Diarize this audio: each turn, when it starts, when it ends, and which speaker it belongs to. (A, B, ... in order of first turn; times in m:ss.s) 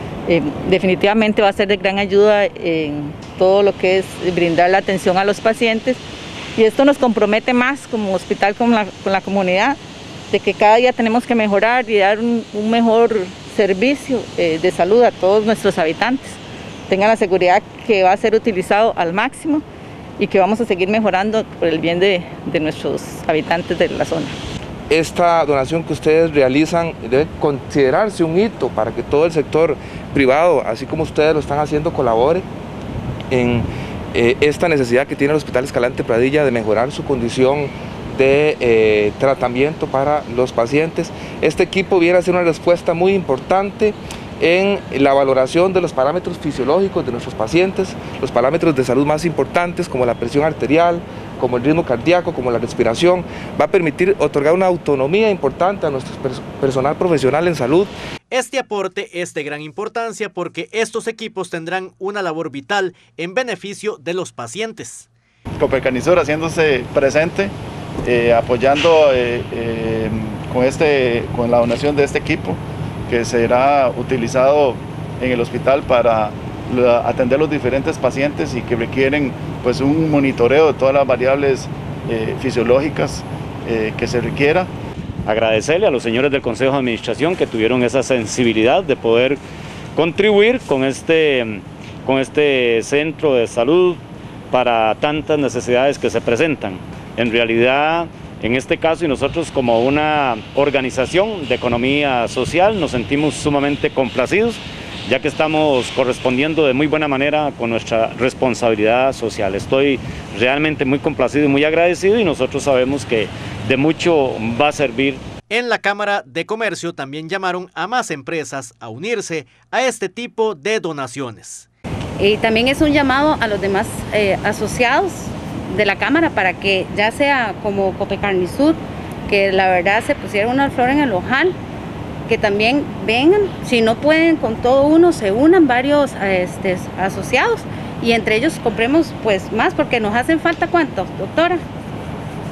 0:00.3-0:06.0 A
0:06.6-0:09.8 A
0:10.3-0:16.4 A
0:16.9-0:19.6 A
0:20.2-0:24.3 A
0:24.9-0:32.4 B
0:33.3-0:57.9 B
0:58.3-1:05.1 C
1:05.6-1:07.5 D
1:08.0-1:24.7 D
1:25.2-1:29.4 E
1:30.0-1:55.2 E
1:55.5-2:01.7 C
2:02.2-2:11.6 F
2:12.3-2:21.6 F